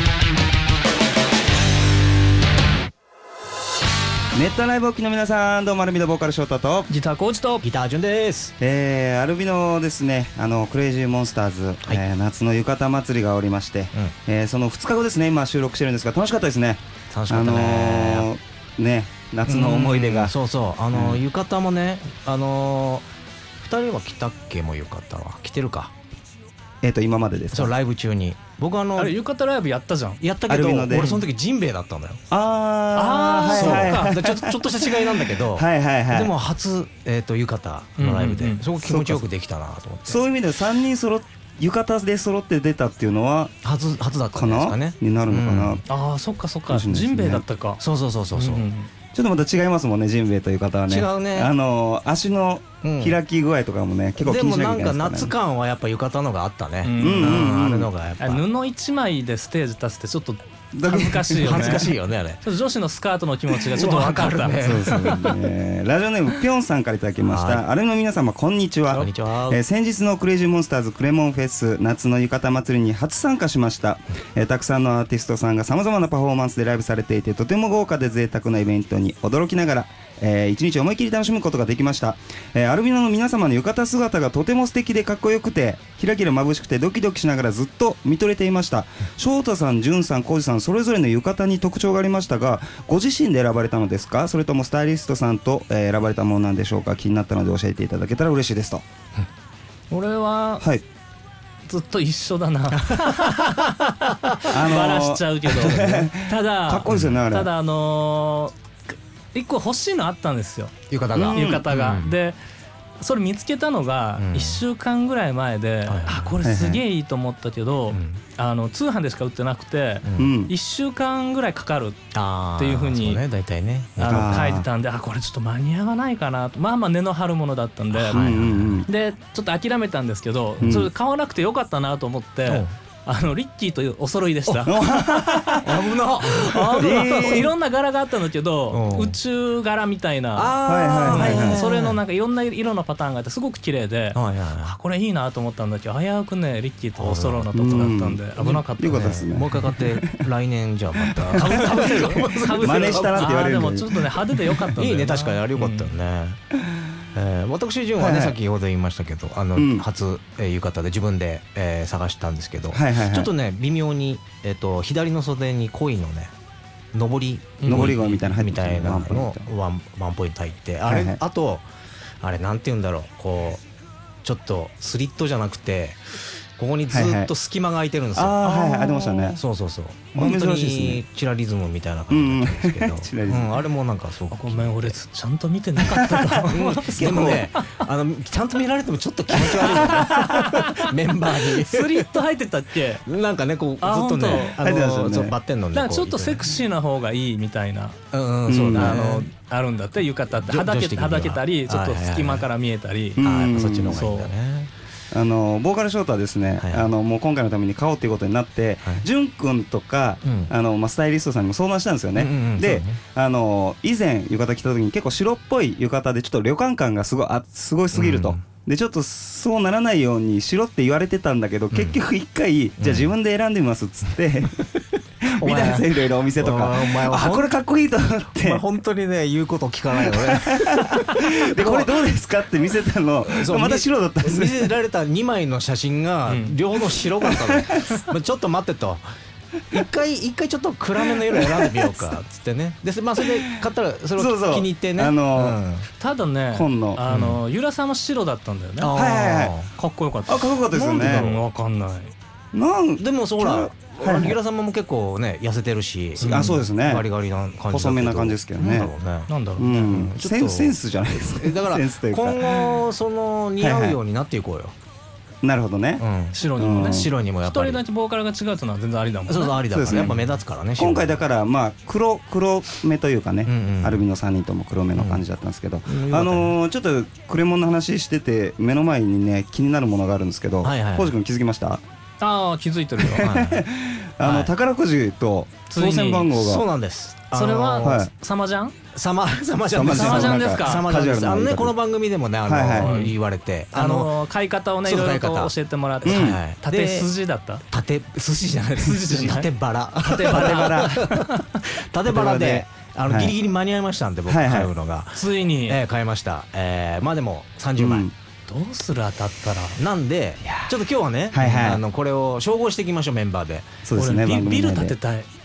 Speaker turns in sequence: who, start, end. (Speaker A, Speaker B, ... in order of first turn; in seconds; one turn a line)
Speaker A: 4.3-6.9
Speaker B: 6.9-7.7
Speaker C: 7.6-8.5
Speaker A: 8.6-20.3
Speaker C: 17.1-18.3
Speaker C: 19.4-23.1
Speaker A: 20.9-21.2
Speaker C: 23.6-25.9
Speaker A: 26.8-27.7
Speaker C: 27.5-29.1
Speaker B: 29.0-30.2
Speaker C: 30.2-32.2
Speaker A: 30.5-31.2
Speaker A: 32.3-36.3
Speaker B: 32.9-34.2
Speaker C: 33.2-40.2
Speaker B: 38.0-38.6
Speaker A: 38.8-39.2
Speaker A: 40.0-43.5
Speaker C: 43.6-45.8
Speaker A: 44.3-45.8
Speaker B: 45.9-47.8
Speaker A: 46.7-47.4
Speaker C: 47.8-48.7
Speaker B: 48.3-48.9
Speaker A: 49.1-55.4
Speaker C: 50.9-51.5
Speaker C: 52.8-53.2
Speaker C: 54.2-58.4
Speaker B: 56.8-57.6
Speaker A: 57.0-57.9
Speaker B: 58.2-65.1
Speaker A: 60.7-61.8
Speaker C: 61.4-62.4
Speaker C: 63.7-65.4
Speaker A: 64.6-98.8
Speaker C: 67.2-67.6
Speaker C: 68.9-69.6
Speaker B: 99.9-100.7
Speaker B: 101.7-108.5
Speaker C: 102.9-103.5
Speaker A: 104.5-107.5
Speaker C: 106.9-107.2
Speaker B: 109.3-110.8
Speaker C: 110.9-112.2
Speaker A: 111.1-111.7
Speaker B: 111.3-112.4
Speaker B: 113.0-123.2
Speaker C: 114.2-114.6
Speaker C: 115.8-116.4
Speaker A: 116.4-116.8
Speaker C: 117.9-118.2
Speaker C: 120.0-120.3
Speaker A: 120.2-120.5
Speaker C: 122.1-124.6
Speaker B: 124.0-128.3
Speaker A: 124.0-124.7
Speaker C: 127.9-128.8
Speaker A: 128.1-128.9
Speaker B: 128.9-149.2
Speaker A: 130.6-130.9
Speaker A: 134.6-135.7
Speaker C: 135.6-137.5
Speaker A: 136.8-137.5
Speaker C: 138.7-139.1
Speaker C: 140.3-142.0
Speaker A: 140.6-141.6
Speaker C: 144.1-144.7
Speaker C: 147.0-147.9
Speaker A: 147.5-150.2
Speaker C: 148.9-153.6
Speaker A: 151.0-154.7
Speaker B: 151.3-155.9
Speaker C: 154.7-156.4
Speaker C: 157.1-166.3
Speaker A: 158.0-158.4
Speaker A: 159.6-159.8
Speaker A: 162.7-163.3
Speaker C: 166.9-171.7
Speaker B: 167.6-167.9
Speaker A: 167.7-169.5
Speaker A: 170.9-171.2
Speaker C: 172.2-173.6
Speaker C: 174.2-184.9
Speaker A: 176.9-177.3
Speaker A: 178.1-179.4
Speaker B: 178.5-179.3
Speaker A: 180.1-181.0
Speaker A: 182.1-183.6
Speaker B: 184.3-187.8
Speaker A: 185.9-187.5
Speaker C: 186.5-192.1
Speaker B: 189.3-193.0
Speaker A: 189.5-190.0
Speaker C: 193.1-196.5
Speaker B: 193.8-194.6
Speaker A: 194.6-195.4
Speaker B: 195.7-198.0
Speaker C: 198.1-199.3
Speaker A: 198.5-199.1
Speaker B: 198.7-203.3
Speaker C: 200.3-202.5
Speaker A: 203.2-204.0
Speaker C: 203.2-204.7
Speaker B: 203.8-204.3
Speaker A: 205.1-224.6
Speaker C: 206.6-206.9
Speaker C: 210.2-210.5
Speaker C: 212.2-213.0
Speaker C: 217.9-218.4
Speaker C: 221.7-222.0
Speaker C: 222.8-223.1
Speaker C: 224.6-224.8
Speaker A: 225.2-228.6
Speaker C: 225.3-227.5
Speaker C: 228.3-232.1
Speaker A: 230.0-234.7
Speaker C: 233.2-239.0
Speaker B: 236.3-236.6
Speaker A: 237.2-238.0
Speaker C: 239.7-245.9
Speaker A: 241.2-241.9
Speaker A: 243.2-243.6
Speaker A: 244.2-245.6
Speaker B: 246.0-248.9
Speaker A: 246.5-247.0
Speaker C: 247.1-247.4
Speaker C: 248.8-249.7
Speaker A: 248.9-249.6
Speaker B: 249.7-252.1
Speaker A: 250.3-251.3
Speaker C: 250.7-251.4
Speaker A: 252.5-254.4
Speaker C: 253.0-264.7
Speaker B: 256.2-256.6
Speaker A: 256.2-257.1
Speaker A: 257.7-258.9
Speaker B: 259.3-260.0
Speaker A: 259.6-262.9
Speaker A: 263.6-264.0
Speaker A: 265.4-266.1
Speaker C: 266.0-267.8
Speaker B: 266.3-270.1
Speaker A: 266.6-267.1
Speaker C: 269.3-271.2
Speaker A: 269.7-281.8
Speaker C: 273.4-274.0
Speaker C: 274.9-275.2
Speaker C: 275.9-276.5
Speaker C: 280.6-281.1
Speaker B: 282.2-283.3
Speaker A: 283.0-286.6
Speaker C: 283.2-283.6
Speaker C: 284.2-284.5
Speaker B: 285.7-286.3
Speaker C: 286.3-288.1
Speaker B: 287.3-288.8
Speaker A: 287.8-288.1
Speaker C: 288.9-294.1
Speaker A: 289.7-291.8
Speaker B: 289.9-290.9
Speaker A: 292.4-292.9
Speaker B: 292.8-293.2
Speaker B: 293.7-297.6
Speaker C: 294.8-297.1
Speaker A: 296.0-296.4
Speaker C: 297.7-308.1
Speaker B: 298.8-301.6
Speaker A: 300.2-301.0
Speaker A: 302.1-303.4
Speaker A: 304.3-304.7
Speaker B: 305.1-305.8
Speaker A: 307.8-308.1
Speaker B: 308.5-309.8
Speaker C: 309.8-313.8
Speaker A: 310.4-310.7
Speaker A: 311.3-311.8
Speaker A: 313.8-314.9
Speaker B: 313.9-315.3